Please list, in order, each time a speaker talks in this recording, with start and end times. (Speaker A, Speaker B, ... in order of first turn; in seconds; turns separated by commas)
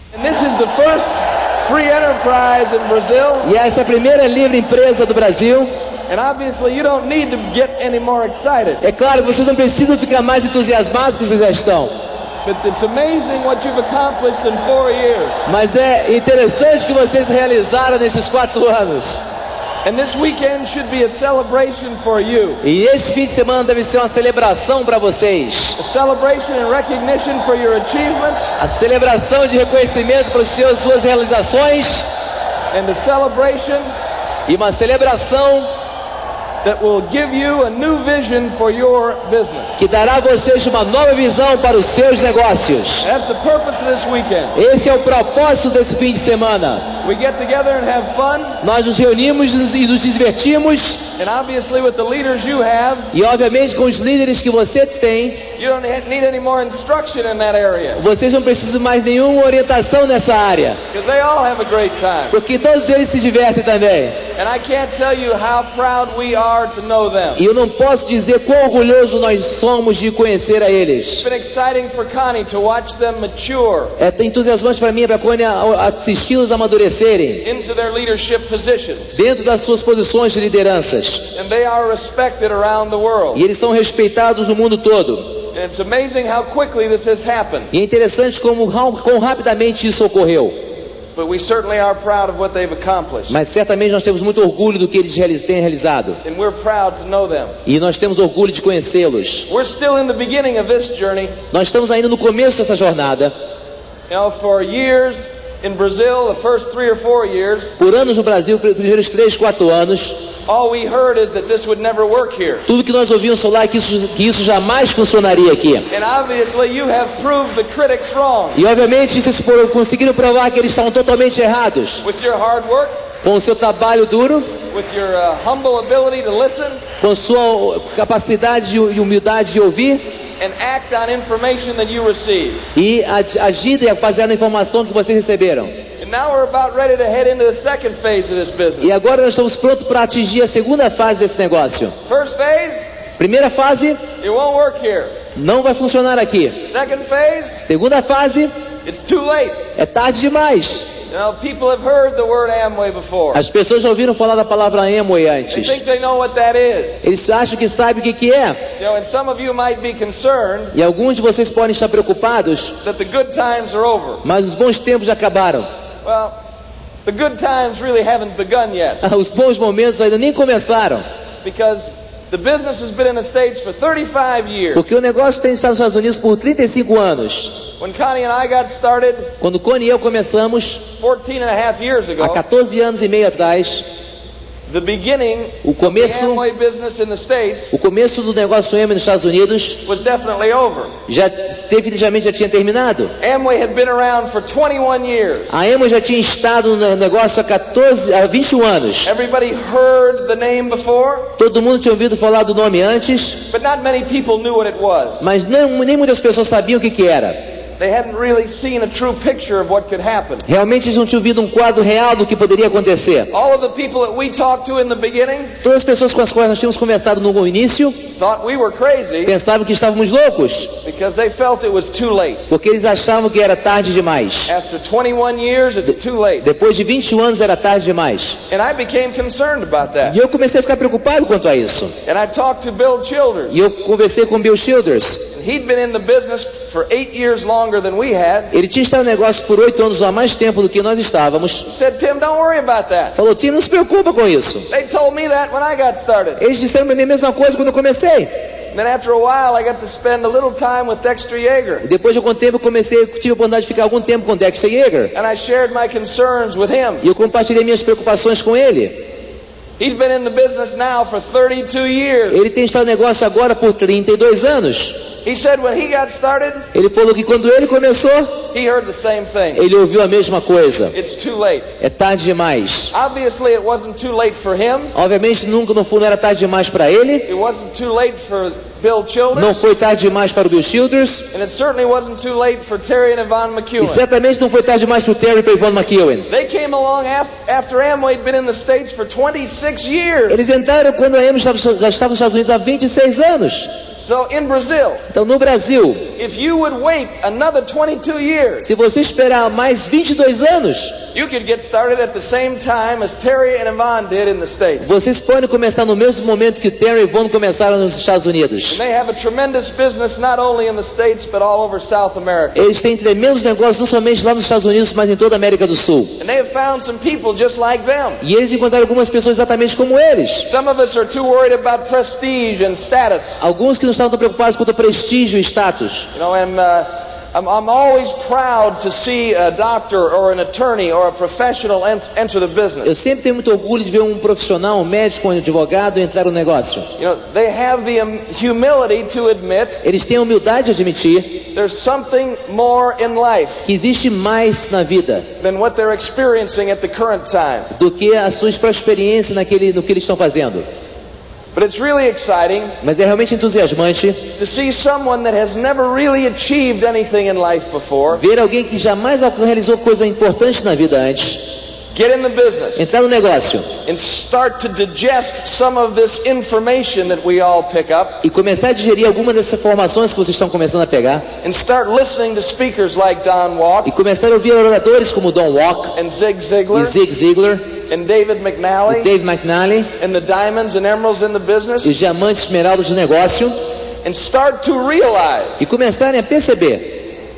Speaker A: 0.1-3.5, Speaker B: 3.4-5.7, Speaker A: 6.1-8.8, Speaker B: 8.8-11.9, Speaker A: 12.4-15.4, Speaker B: 15.5-19.2, Speaker A: 19.9-22.6, Speaker B: 22.6-25.8, Speaker A: 25.8-28.5, Speaker B: 28.6-32.1, Speaker A: 32.7-33.9, Speaker B: 34.5-35.7, Speaker A: 36.6-39.8, Speaker B: 39.8-43.1, Speaker A: 43.0-44.6, Speaker B: 44.5-47.0, Speaker A: 47.0-48.6, Speaker B: 48.6-51.1, Speaker A: 51.2-53.1, Speaker B: 53.1-55.5, Speaker A: 55.6-58.0, Speaker B: 58.0-60.8, Speaker A: 60.9-62.4, Speaker B: 62.3-64.2, Speaker A: 64.4-67.4, Speaker B: 67.4-71.2, Speaker A: 71.2-73.9, Speaker B: 74.0-77.5, Speaker A: 77.4-79.2, Speaker B: 79.1-81.3, Speaker A: 81.3-83.4, Speaker B: 83.3-85.4, Speaker A: 85.5-87.7, Speaker B: 87.7-90.6, Speaker A: 91.2-93.4, Speaker B: 93.3-96.2, Speaker A: 96.2-97.5, Speaker B: 97.7-99.5, Speaker A: 99.5-101.4, Speaker B: 101.5-103.3, Speaker A: 104.1-107.7, Speaker B: 107.8-110.3, Speaker A: 110.5-112.7, Speaker B: 112.7-115.9, Speaker A: 115.9-118.6, Speaker B: 118.5-122.0, Speaker A: 122.0-123.0, Speaker B: 123.2-124.5, Speaker A: 124.7-126.8, Speaker B: 127.0-130.0, Speaker A: 130.4-132.6, Speaker B: 132.8-135.8, Speaker A: 136.0-138.9, Speaker B: 138.8-142.0, Speaker A: 142.1-142.8, Speaker B: 143.2-144.0, Speaker A: 144.2-145.1, Speaker B: 145.3-146.7, Speaker A: 146.7-147.6, Speaker B: 147.6-148.5, Speaker A: 148.8-149.6, Speaker B: 149.8-150.9, Speaker A: 151.1-153.4, Speaker B: 153.3-155.8, Speaker A: 155.5-157.1, Speaker B: 157.0-158.6, Speaker A: 158.8-160.7, Speaker B: 160.7-162.8, Speaker A: 162.8-164.2, Speaker B: 164.2-165.7, Speaker A: 166.0-166.4, Speaker A: 167.1-169.0, Speaker B: 169.0-171.1, Speaker A: 171.4-174.8, Speaker B: 174.8-177.6, Speaker A: 177.8-179.3, Speaker B: 179.4-180.9, Speaker A: 181.0-182.4, Speaker B: 182.2-183.8, Speaker A: 184.7-187.7, Speaker B: 185.6-186.4, Speaker B: 187.7-189.8, Speaker A: 189.8-190.9, Speaker B: 191.1-193.1, Speaker A: 193.2-195.5, Speaker B: 195.5-199.1, Speaker A: 199.1-201.3, Speaker B: 201.4-203.4, Speaker A: 203.5-205.3, Speaker B: 205.2-207.4, Speaker A: 207.8-210.5, Speaker B: 210.4-213.3, Speaker A: 213.3-215.5, Speaker B: 215.6-218.0, Speaker A: 218.2-219.3, Speaker B: 219.2-220.7, Speaker A: 220.8-222.5, Speaker B: 222.5-224.5, Speaker A: 224.5-226.5, Speaker B: 226.4-228.4, Speaker A: 228.5-230.2, Speaker B: 230.0-231.9, Speaker A: 232.1-233.6, Speaker B: 233.5-235.3, Speaker A: 235.3-238.5, Speaker B: 238.5-241.7, Speaker A: 241.7-243.2, Speaker B: 243.2-244.7, Speaker A: 244.7-246.4, Speaker B: 246.4-248.3, Speaker A: 248.7-251.8, Speaker B: 251.8-255.1, Speaker A: 255.1-257.0, Speaker B: 257.0-259.0, Speaker A: 259.8-262.4, Speaker B: 262.3-265.0, Speaker A: 265.2-266.7, Speaker B: 266.7-268.4, Speaker A: 268.5-269.6, Speaker B: 269.6-270.9, Speaker A: 270.9-271.7, Speaker B: 271.8-272.9, Speaker A: 272.9-274.9, Speaker B: 274.9-277.3, Speaker A: 277.3-279.6, Speaker B: 279.4-281.3, Speaker A: 281.3-284.0, Speaker B: 283.8-286.3, Speaker A: 286.3-290.4, Speaker B: 290.3-293.7, Speaker A: 294.0-295.0, Speaker B: 295.1-296.1, Speaker A: 296.2-298.7, Speaker B: 298.6-301.0, Speaker A: 301.1-304.9, Speaker B: 304.8-308.8, Speaker A: 308.7-312.6, Speaker B: 312.6-316.1, Speaker A: 316.2-318.2, Speaker B: 318.2-320.5, Speaker A: 320.4-323.4, Speaker B: 323.4-326.1, Speaker A: 326.1-332.9, Speaker B: 332.8-336.9, Speaker A: 337.0-339.8, Speaker B: 339.8-341.5, Speaker A: 341.5-343.7, Speaker B: 343.6-345.3, Speaker A: 345.4-347.7, Speaker B: 347.7-350.7, Speaker A: 351.6-352.8, Speaker B: 352.8-354.2, Speaker A: 354.4-358.2, Speaker B: 358.1-361.6, Speaker A: 361.9-362.9, Speaker B: 362.8-363.7, Speaker A: 363.9-368.2, Speaker B: 368.2-371.3, Speaker A: 371.4-373.9, Speaker B: 373.9-376.0, Speaker A: 375.9-376.9, Speaker B: 376.7-377.7, Speaker A: 377.9-379.1, Speaker B: 378.9-379.9, Speaker A: 380.0-381.9, Speaker B: 381.8-383.6, Speaker A: 384.0-385.6, Speaker B: 385.6-387.0